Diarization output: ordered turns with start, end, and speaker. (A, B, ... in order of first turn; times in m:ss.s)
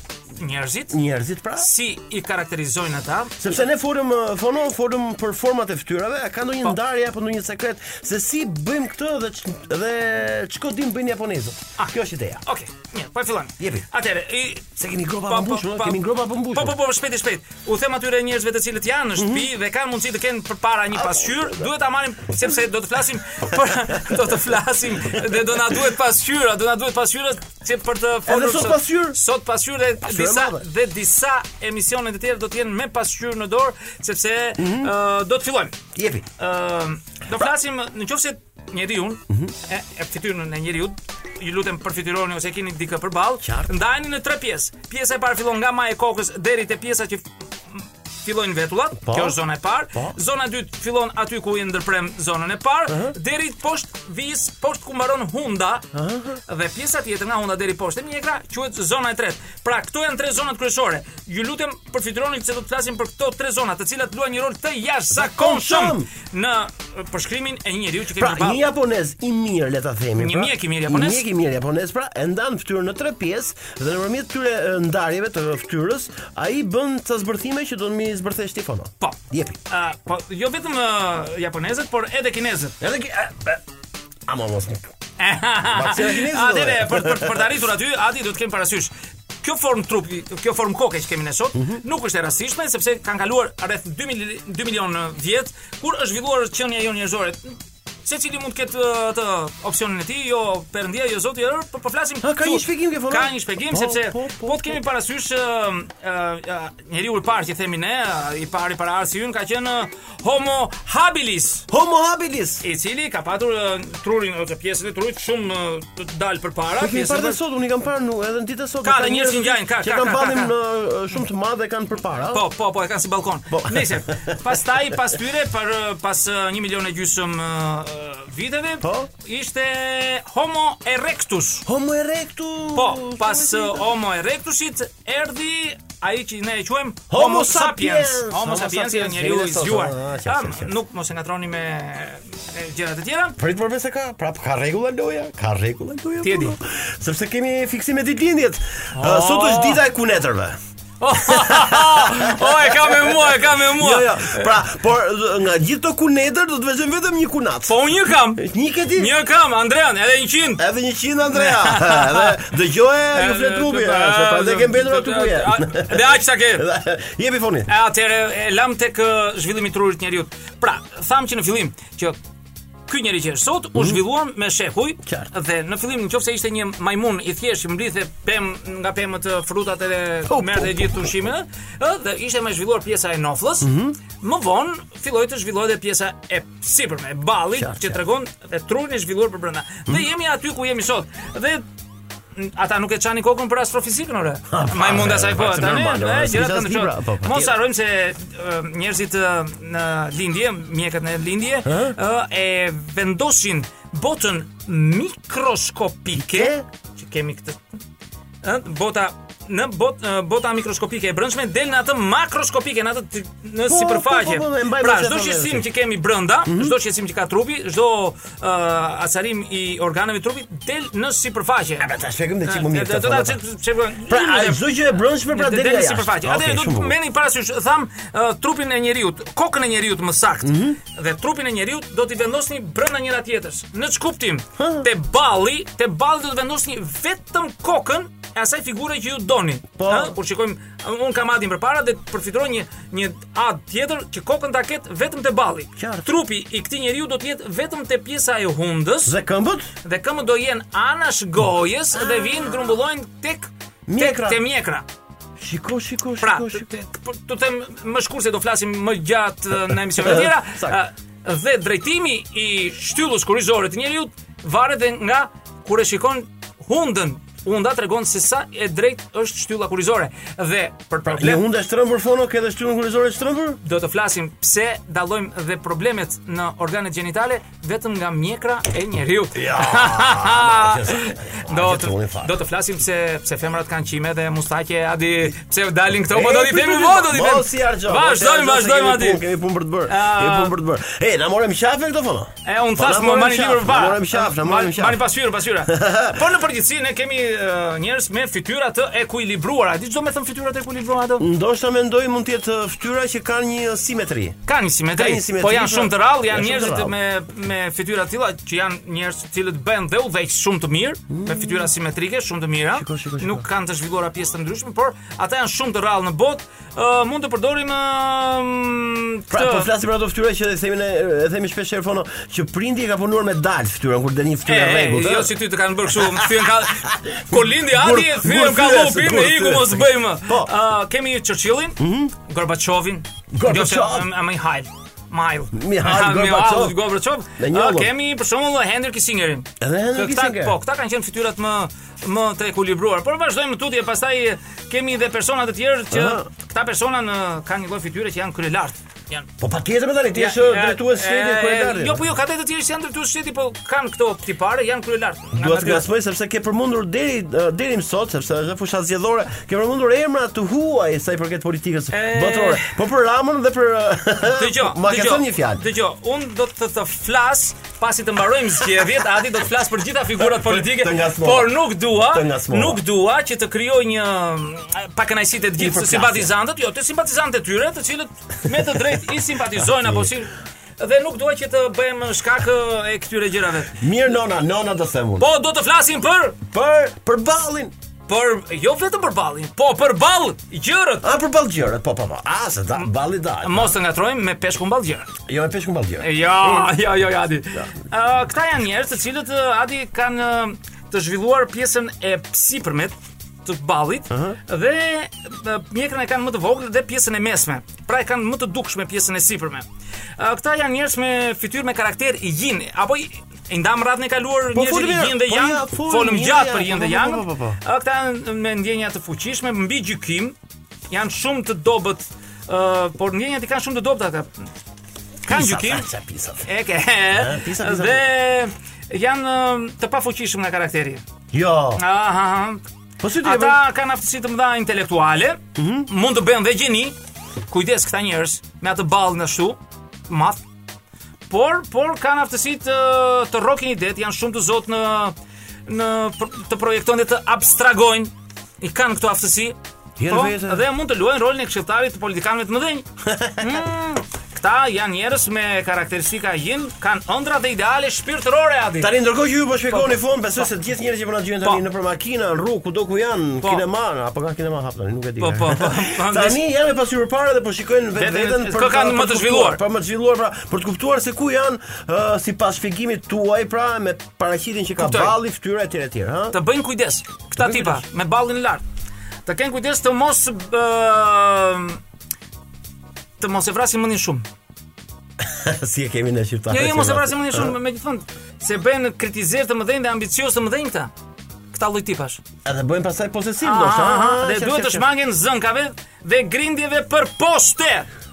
0:00.4-0:01.0 A
0:00.9-0:01.7 B
0:01.6-0:03.4 A
0:03.4-0:12.4 B
0:12.4-0:35.8 A
0:13.6-0:13.9 B
0:14.8-0:16.8 B
0:19.2-0:19.5 B
0:20.9-0:21.7 B
0:28.3-0:29.2 B
0:30.0-0:30.6 B
0:34.6-0:34.9 B
0:36.0-0:36.3 B
0:36.4-0:55.9 A
0:43.4-0:43.7 B
0:49.0-0:49.4 B
0:52.9-0:53.2 B
0:55.9-0:56.4 B
0:56.5-1:08.6 A
1:05.1-1:06.1 B
1:08.2-1:19.6 B
1:10.2-1:11.2 A
1:19.0-1:22.8 A
1:22.8-1:23.6 B
1:24.3-1:24.9 B
1:25.2-1:28.9 A
1:25.7-1:27.5 B
1:29.4-1:51.7 A
1:31.6-1:31.8 B
1:42.2-1:44.8 B
1:51.7-1:52.6 B
1:52.6-1:57.4 A
1:56.8-2:02.4 B
1:58.8-2:00.6 A
2:02.3-2:11.7 A
2:03.5-2:05.0 B
2:08.8-2:09.1 B
2:11.7-2:14.0 B
2:12.8-2:23.4 A
2:17.1-2:20.8 B
2:23.4-2:30.6 B
2:26.2-2:26.6 A
2:29.0-2:29.8 A
2:31.0-2:34.6 A
2:31.1-2:37.8 B
2:37.7-2:40.6 A
2:38.3-2:39.1 B
2:40.6-2:47.7 B
2:41.3-2:42.4 A
2:43.1-2:46.7 A
2:47.7-2:52.2 A
2:52.9-3:11.6 A
2:53.8-2:54.0 B
2:55.0-2:55.3 B
3:00.3-3:01.2 B
3:03.6-3:04.0 B
3:07.5-3:08.0 B
3:12.4-3:27.6 A
3:14.5-3:17.6 B
3:21.6-3:22.0 B
3:26.2-3:26.7 B
3:28.4-3:41.9 A
3:33.7-3:35.7 B
3:36.4-3:36.8 B
3:41.8-3:43.4 B
3:42.4-3:44.7 A
3:44.0-3:47.0 B
3:45.2-4:09.2 A
3:50.4-3:50.8 B
3:54.6-3:54.9 B
3:59.8-4:00.2 B
4:05.8-4:06.1 B
4:09.1-4:09.7 B
4:09.8-4:14.8 A
4:11.9-4:12.7 B
4:13.9-4:14.4 B
4:15.4-4:16.7 B
4:16.2-4:31.4 A
4:19.9-4:20.8 B
4:31.1-4:33.6 B
4:33.6-4:49.2 A
4:39.4-4:42.4 B
4:46.1-4:55.0 B
4:49.9-4:50.6 A
4:52.4-5:01.3 A
4:55.6-4:56.3 B
5:01.2-5:04.4 B
5:04.5-5:19.7 A
5:05.0-5:06.9 B
5:11.1-5:11.7 B
5:12.7-5:13.4 B
5:19.3-5:25.4 B
5:24.5-5:49.3 A
5:26.0-5:30.5 B
5:31.8-5:32.1 B
5:33.3-5:34.1 B
5:35.5-5:37.9 B
5:39.6-5:40.6 B
5:45.9-5:46.3 B
5:49.4-5:52.1 B
5:50.1-5:55.9 A
5:55.3-6:05.6 B
6:01.9-6:02.8 A
6:04.3-6:23.8 A
6:10.2-6:12.8 B
6:15.6-6:16.3 B
6:19.6-6:20.1 B
6:23.8-6:25.3 B
6:25.2-6:26.4 A
6:26.5-6:27.7 B
6:28.1-6:31.1 A
6:31.0-6:33.8 B
6:33.4-6:35.1 A
6:35.3-6:36.8 B
6:36.0-6:49.7 A
6:44.1-6:44.4 B
6:50.2-7:00.4 A
6:54.5-6:57.6 B
7:00.9-7:04.5 A
7:05.2-7:05.9 A
7:05.3-7:06.5 B
7:06.5-7:11.0 A
7:07.1-7:08.1 B
7:11.3-7:11.8 B
7:11.8-7:12.6 A
7:13.0-7:13.6 B
7:13.2-7:17.0 A
7:15.6-7:15.9 B
7:17.5-7:20.4 A
7:21.3-7:25.2 A
7:25.7-7:29.6 A
7:30.0-7:30.7 B
7:30.1-7:32.8 A
7:33.0-7:33.6 B
7:33.4-7:38.9 A
7:38.8-7:56.4 B
7:39.7-7:40.4 A
7:45.2-7:46.4 A
7:48.0-7:49.6 A
7:54.8-7:55.2 A
7:56.3-7:58.6 A
7:57.4-7:57.8 B
7:59.3-8:01.8 A
8:03.2-8:04.2 A
8:05.2-8:07.6 B
8:06.5-8:10.9 A
8:11.5-8:12.2 A
8:12.4-8:14.9 B
8:13.4-8:17.9 A